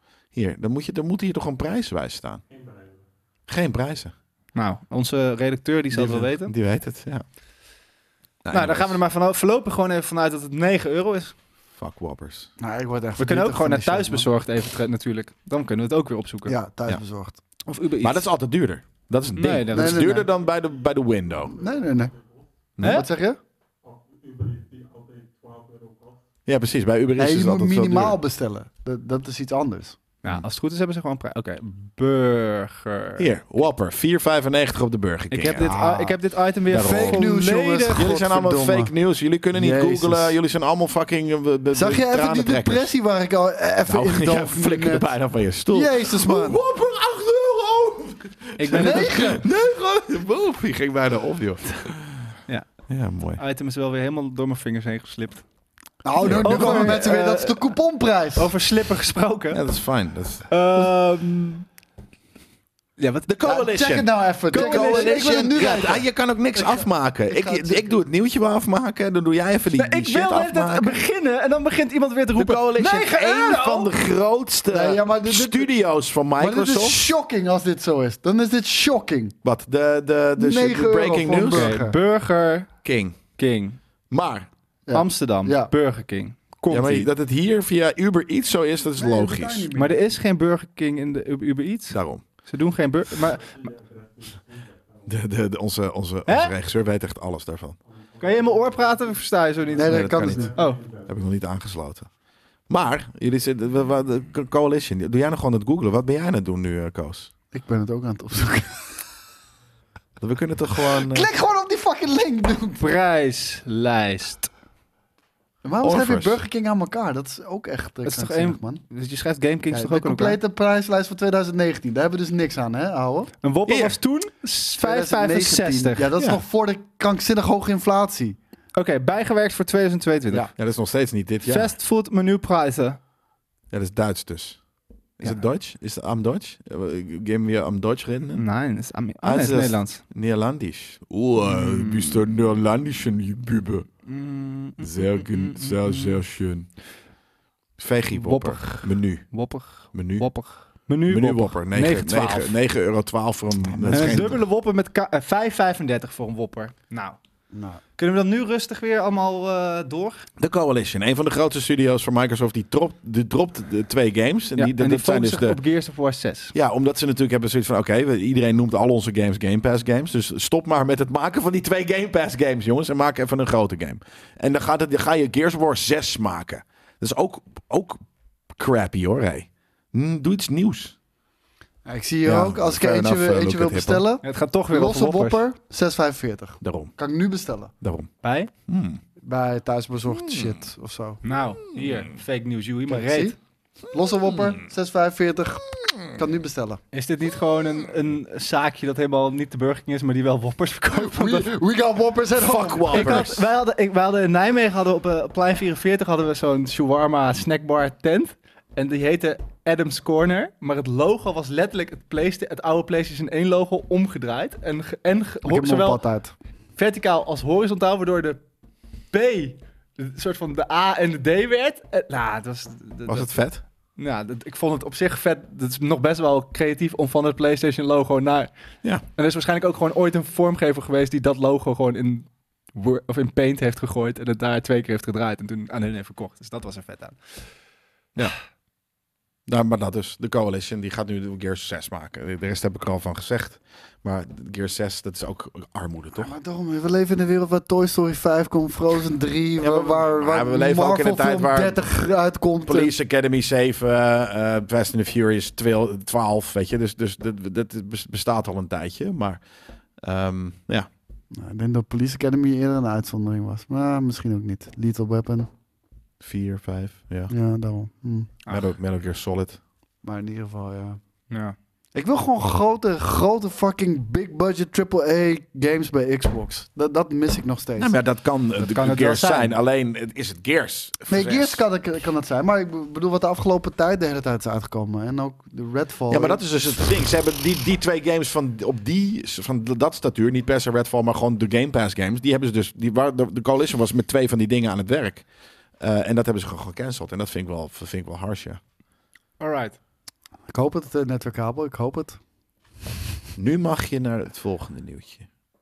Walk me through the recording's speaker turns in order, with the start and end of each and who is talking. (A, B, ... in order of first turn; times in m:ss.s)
0:00.3-0:02.4 A
0:03.5-0:04.1 A
0:04.6-0:06.5 B
0:05.9-0:07.2 A
0:08.4-0:09.0 A
0:08.5-0:11.4 B
0:11.8-0:12.5 A
0:12.6-0:14.3 C
0:13.2-0:16.6 B
0:16.5-0:17.4 C
0:17.6-0:18.3 B
0:18.0-0:21.6 A
0:19.4-0:20.2 B
0:19.7-0:20.3 C
0:21.6-0:22.2 C
0:22.8-0:23.1 A
0:22.8-0:23.1 B
0:22.8-0:23.4 C
0:26.5-0:28.2 A
0:27.2-0:30.0 C
0:30.2-0:33.3 B
0:33.2-0:35.7 A
0:35.3-0:38.1 B
0:35.6-0:36.2 C
0:36.7-0:42.9 A
0:36.7-0:38.9 C
0:39.5-0:40.4 C
0:41.7-0:45.1 C
0:43.9-0:52.3 A
0:45.7-0:46.6 C
0:48.6-0:49.2 B
0:48.7-0:49.4 C
0:52.9-0:53.4 A
0:53.4-0:55.4 B
0:56.0-0:58.5 C
0:56.2-0:57.0 A
0:56.2-0:57.8 B
0:58.3-0:59.6 B
0:59.5-1:00.5 A
1:00.5-1:01.7 B
1:03.0-1:03.4 B
1:03.3-1:11.0 A
1:03.4-1:08.0 C
1:04.5-1:05.7 B
1:09.7-1:13.9 B
1:12.4-1:17.1 A
1:14.7-1:15.7 C
1:16.4-1:19.4 C
1:19.4-1:21.8 A
1:20.4-1:22.0 C
1:21.5-1:22.7 B
1:22.8-1:23.2 A
1:23.4-1:23.8 B
1:24.1-1:24.5 A
1:24.9-1:25.7 C
1:24.9-1:27.1 B
1:26.7-1:29.7 A
1:29.0-1:30.0 C
1:29.8-1:33.7 B
1:31.9-1:32.2 A
1:35.1-1:37.8 A
1:36.3-1:36.5 B
1:38.2-1:40.9 B
1:39.8-1:40.5 C
1:39.8-1:42.1 A
1:42.7-1:47.3 A
1:47.5-1:48.9 C
1:50.2-1:51.3 A
1:50.9-1:52.8 C
1:52.8-1:54.5 B
1:55.6-1:58.8 C
1:55.8-1:56.4 A
1:58.0-2:00.4 B
1:59.7-2:03.3 C
2:03.4-2:06.1 B
2:03.7-2:04.0 A
2:04.8-2:08.4 C
2:06.2-2:06.4 A
2:08.8-2:10.5 B
2:10.3-2:11.7 A
2:11.4-2:13.0 B
2:13.7-2:14.6 A
2:15.2-2:18.4 A
2:15.2-2:15.5 B
2:18.4-2:20.0 B
2:19.2-2:23.9 A
2:21.4-2:22.2 B
2:24.0-2:26.2 B
2:24.8-2:26.7 A
2:27.8-2:29.3 A
2:28.1-2:32.6 B
2:29.9-2:30.3 A
2:31.1-2:34.4 A
2:33.7-2:34.3 C
2:33.9-2:37.2 B
2:37.5-2:37.8 C
2:38.0-2:40.3 B
2:40.4-2:45.6 A
2:44.6-2:46.6 B
2:46.5-2:58.0 A
2:58.5-3:01.0 A
3:01.8-3:07.7 C
3:02.2-3:04.1 A
3:04.2-3:05.4 B
3:06.6-3:06.9 A
3:07.8-3:08.1 A
3:08.2-3:08.5 B
3:08.7-3:09.0 A
3:09.2-3:11.2 C
3:10.1-3:10.5 A
3:11.2-3:13.4 B
3:12.9-3:13.4 C
3:13.9-3:16.8 C
3:16.9-3:21.5 B
3:20.9-3:23.3 C
3:22.3-3:23.4 A
3:22.9-3:36.0 B
3:35.4-3:36.3 C
3:36.8-3:38.4 B
3:39.1-3:43.3 B
3:43.1-3:43.6 A
3:44.0-3:48.5 B
3:49.1-3:57.2 B
3:59.5-4:06.3 A
4:06.2-4:12.9 C
4:09.6-4:12.0 A
4:12.7-4:19.4 A
4:20.0-4:20.9 A
4:21.3-4:25.5 C
4:26.2-4:27.3 A
4:27.3-4:28.3 C
4:28.5-4:29.6 A
4:30.0-4:31.0 C
4:31.3-4:31.6 B
4:32.0-4:37.9 C
4:37.8-4:41.6 A
4:38.6-4:39.6 B
4:41.1-4:46.4 C
4:46.1-4:55.3 A
4:55.8-4:58.6 A
4:59.4-4:59.8 B
5:00.5-5:02.2 C
5:03.4-5:05.3 A